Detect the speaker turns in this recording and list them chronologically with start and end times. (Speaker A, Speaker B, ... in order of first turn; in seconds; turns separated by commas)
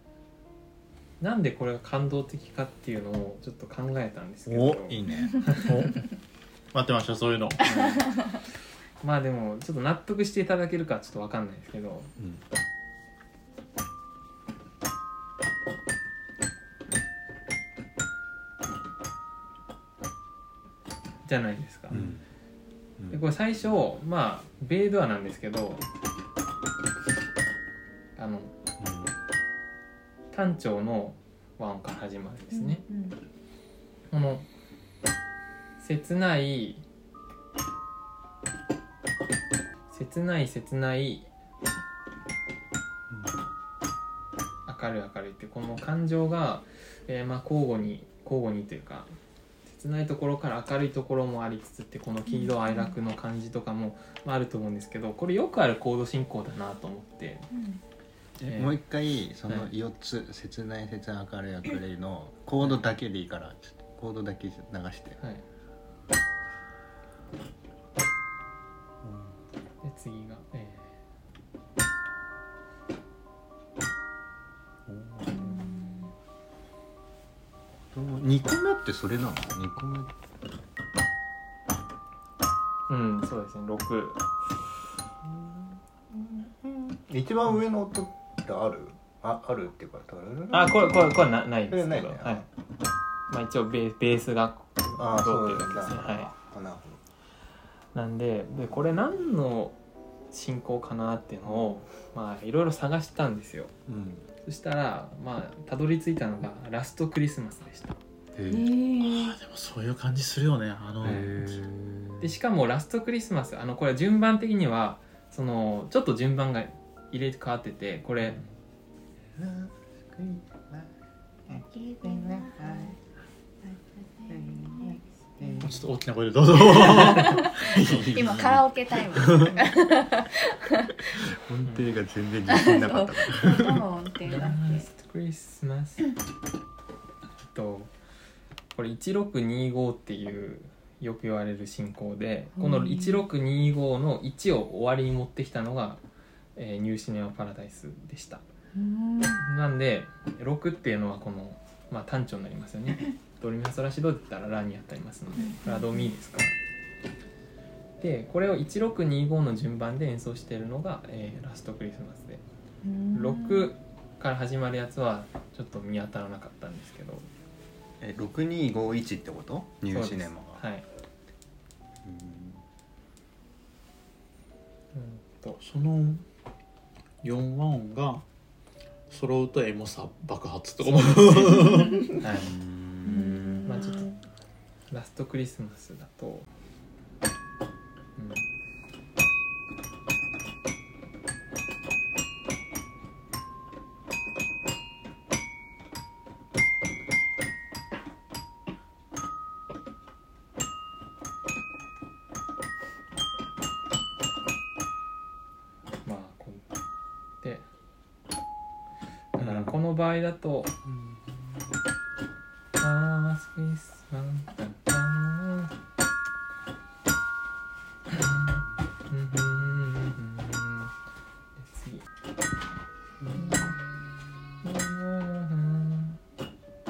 Speaker A: 1.2-5.9, Speaker B: 4.5-5.5, Speaker C: 5.1-5.4, Speaker D: 5.6-6.1, Speaker D: 6.7-7.6, Speaker A: 7.6-8.2, Speaker C: 7.8-8.3, Speaker A: 9.0-12.1, Speaker B: 12.2-12.4, Speaker A: 21.2-22.1, Speaker B: 21.9-22.2, Speaker A: 23.1-25.9, Speaker A: 28.2-28.5, Speaker B: 28.8-29.1, Speaker A: 30.3-32.8, Speaker C: 32.5-33.2, Speaker A: 34.1-34.5, Speaker A: 35.8-36.8, Speaker A: 39.9-41.3, Speaker A: 44.7-49.1, Speaker A: 49.7-57.5, Speaker C: 52.3-53.0, Speaker C: 57.5-57.8, Speaker B: 58.4-65.2, Speaker A: 58.4-58.8, Speaker A: 62.6-62.9, Speaker B: 69.0-69.3, Speaker A: 69.8-71.0, Speaker B: 74.9-75.3, Speaker C: 75.3-76.1, Speaker B: 77.9-80.1, Speaker A: 82.9-84.2, Speaker B: 85.2-92.5, Speaker A: 90.5-92.5, Speaker A: 93.3-96.3, Speaker B: 95.0-97.0, Speaker A: 97.9-99.8, Speaker A: 100.3-103.7, Speaker B: 101.5-101.7, Speaker B: 103.9-104.2, Speaker A: 104.4-108.0, Speaker B: 108.3-108.7, Speaker C: 108.5-109.4, Speaker D: 109.0-111.6, Speaker B: 111.0-112.3, Speaker A: 112.2-118.4, Speaker B: 119.4-120.9, Speaker B: 121.5-123.0, Speaker C: 121.5-123.0, Speaker C: 123.6-125.7, Speaker B: 124.3-125.8, Speaker D: 125.6-128.1, Speaker B: 126.6-129.6, Speaker C: 126.6-131.2, Speaker D: 129.2-129.5, Speaker B: 131.1-133.8, Speaker A: 131.6-132.0, Speaker C: 132.5-134.9, Speaker A: 134.3-136.1, Speaker A: 137.5-137.9, Speaker A: 138.8-146.0, Speaker C: 142.6-143.2, Speaker A: 146.6-148.4, Speaker C: 148.7-149.4, Speaker A: 149.4-156.6, Speaker C: 155.4-156.1, Speaker A: 158.0-162.4, Speaker C: 162.8-163.7, Speaker A: 163.1-167.3, Speaker B: 168.0-170.6, Speaker A: 169.9-170.9, Speaker B: 172.0-172.6, Speaker A: 174.9-175.6, Speaker D: 175.6-176.2, Speaker D: 177.2-178.2, Speaker D: 179.1-182.2, Speaker A: 180.8-182.6, Speaker C: 181.4-182.0, Speaker B: 182.3-183.8, Speaker C: 183.1-184.2, Speaker A: 183.7-184.1, Speaker A: 184.9-186.5, Speaker A: 188.2-188.4, Speaker A: 206.1-206.7, Speaker A: 207.4-207.7, Speaker A: 209.3-210.8, Speaker B: 209.4-209.8, Speaker B: 210.9-211.2, Speaker A: 212.8-215.7, Speaker A: 218.1-220.9, Speaker A: 221.6-222.1, Speaker B: 223.2-223.8, Speaker A: 224.6-226.2